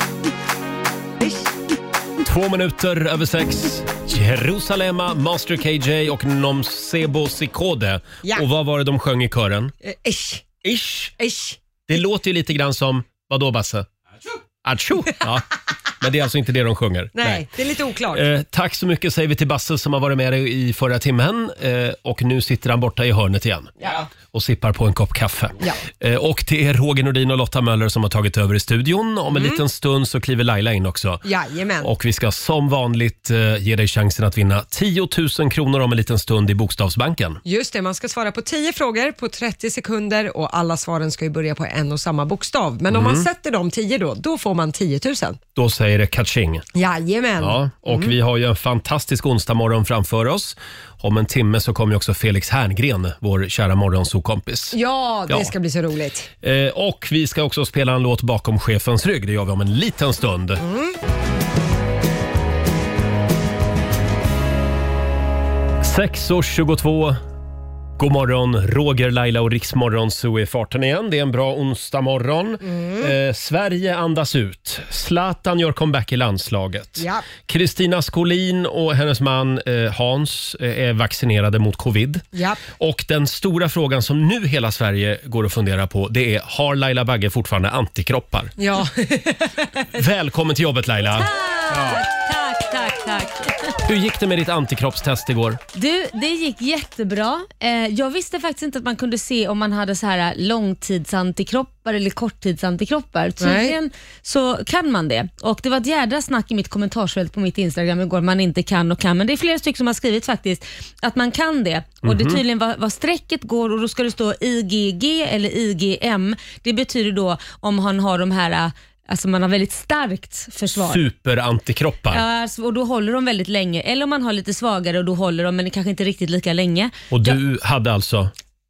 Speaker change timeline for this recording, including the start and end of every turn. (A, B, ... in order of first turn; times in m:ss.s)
0:01.2-0:01.5 A
0:02.2-0:09.7 B
0:09.8-0:10.5 A
0:10.6-0:11.2 B
0:11.2-0:11.6 A
0:11.9-0:13.9 B
0:14.6-0:15.5 B
0:16.0-0:17.5 B
0:17.2-0:18.2 A
0:18.1-0:31.2 B
0:29.3-0:29.6 A
0:31.2-0:31.9 A
0:31.8-0:37.4 B
0:37.4-0:45.4 A
0:42.9-0:43.3 B
0:45.6-0:46.6 B
0:46.7-0:48.1 A
0:47.4-0:54.8 B
0:54.7-0:56.3 A
0:55.3-0:55.5 B
0:56.4-1:00.6 B
1:00.6-1:00.9 A
1:05.8-1:07.2 B
1:08.0-1:28.5 B
1:12.6-1:13.1 A
1:17.0-1:17.2 A
1:22.3-1:22.6 A
1:28.6-1:29.9 A
1:30.0-1:32.0 B
1:31.1-1:33.8 C
1:33.8-1:35.6 B
1:35.7-2:01.0 C
1:43.4-1:43.8 A
1:52.0-1:52.4 B
2:00.9-2:02.2 B
2:02.1-2:07.4 C
2:07.1-2:08.3 B